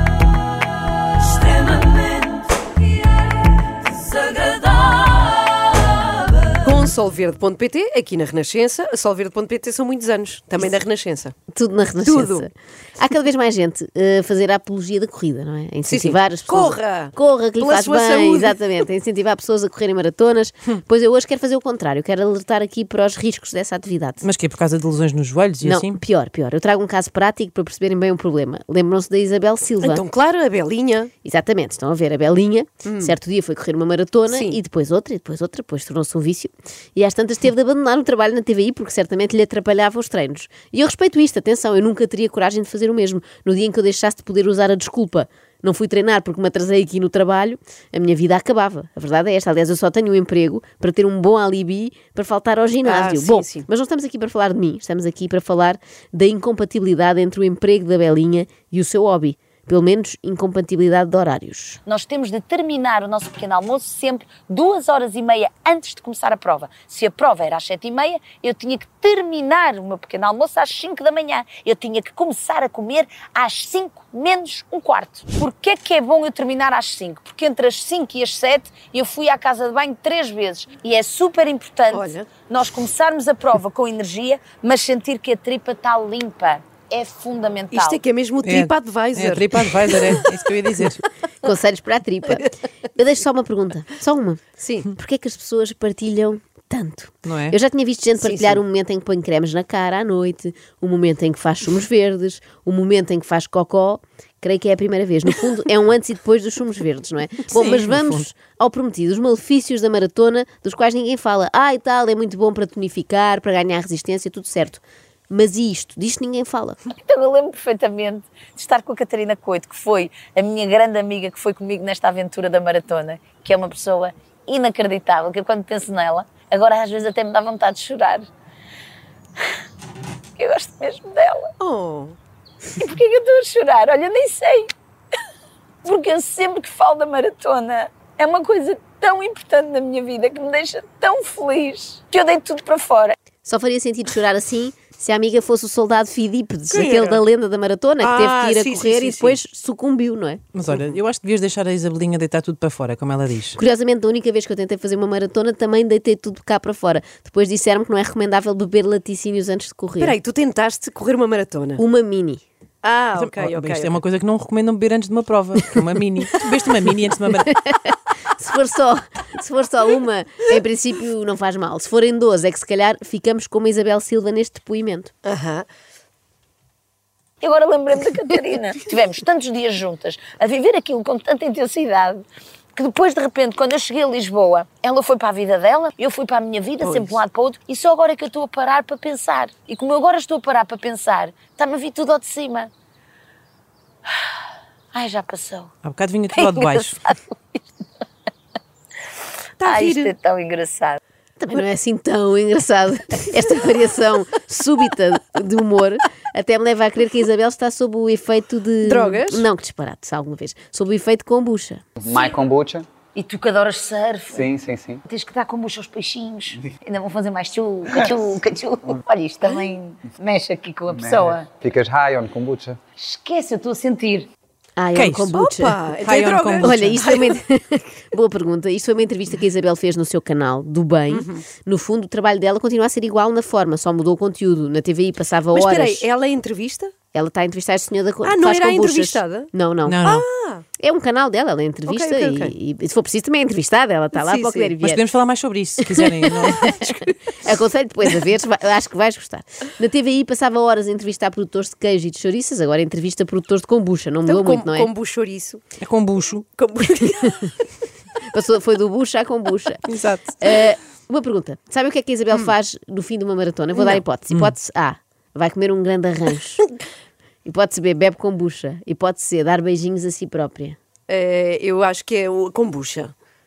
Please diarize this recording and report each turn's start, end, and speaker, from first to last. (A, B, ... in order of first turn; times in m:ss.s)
0:06.5-0:11.3 A
0:11.5-0:24.2 B
0:12.0-0:12.4 A
0:15.8-0:18.6 A
0:24.2-0:26.0 C
0:25.6-0:30.0 B
0:29.8-0:31.1 A
0:31.2-1:01.8 B
0:32.8-0:33.1 A
0:34.3-0:34.6 A
0:52.8-0:53.6 A
1:01.8-1:28.0 D
1:21.9-1:22.3 A
1:27.7-1:30.9 A
1:28.4-1:31.0 C
1:31.4-1:34.4 B
1:34.6-1:34.9 A
1:34.9-1:56.8 B
1:37.2-1:37.6 C
1:38.2-1:38.6 A
1:47.5-1:48.2 C
1:56.9-2:08.3 D
2:10.4-2:11.5 D
2:11.6-2:12.2 A
2:12.8-2:14.7 D
2:15.8-2:23.2 D
2:23.4-2:30.4 B
2:26.7-2:27.2 A
2:28.0-2:29.4 A
2:30.5-2:33.6 C
2:33.5-2:40.2 B
2:40.0-2:41.8 A
2:41.8-2:42.4 B
2:42.8-2:44.0 A
2:43.1-2:47.5 C
2:47.4-2:55.1 B
2:55.2-2:55.6 A
2:57.4-3:12.7 D
3:06.8-3:07.2 A
3:14.9-3:15.7 D
3:15.8-3:17.0 C
3:16.3-3:17.6 D
3:19.6-3:20.1 A
3:19.6-3:21.0 D
3:21.4-3:31.8 B
3:28.8-3:29.5 A
3:32.0-3:32.9 E
3:33.1-3:34.4 D
3:34.3-3:35.0 E
3:35.0-3:41.5 D
3:40.9-3:42.8 E
3:43.0-3:44.3 D
3:44.8-3:45.8 B
3:44.9-3:45.3 C
3:45.3-3:47.3 A
3:46.0-3:47.0 C
3:46.6-3:56.0 B
3:51.1-3:51.4 A
3:55.5-3:56.9 A
3:57.1-4:00.0 B
3:58.2-3:59.5 A
3:59.8-4:00.2 C
4:00.0-4:00.6 A
4:00.8-4:05.0 B
4:01.9-4:02.5 A
4:04.1-4:04.8 A
4:04.8-4:06.9 C
4:05.9-4:06.8 B
4:07.4-4:14.9 B
4:14.2-4:15.6 A
4:15.8-4:16.5 C
4:16.6-4:17.5 A
4:18.3-4:19.8 B
4:19.9-4:20.3 A
4:20.4-4:26.6 B
4:23.7-4:24.0 A
4:27.4-4:30.8 B
4:31.1-4:33.1 A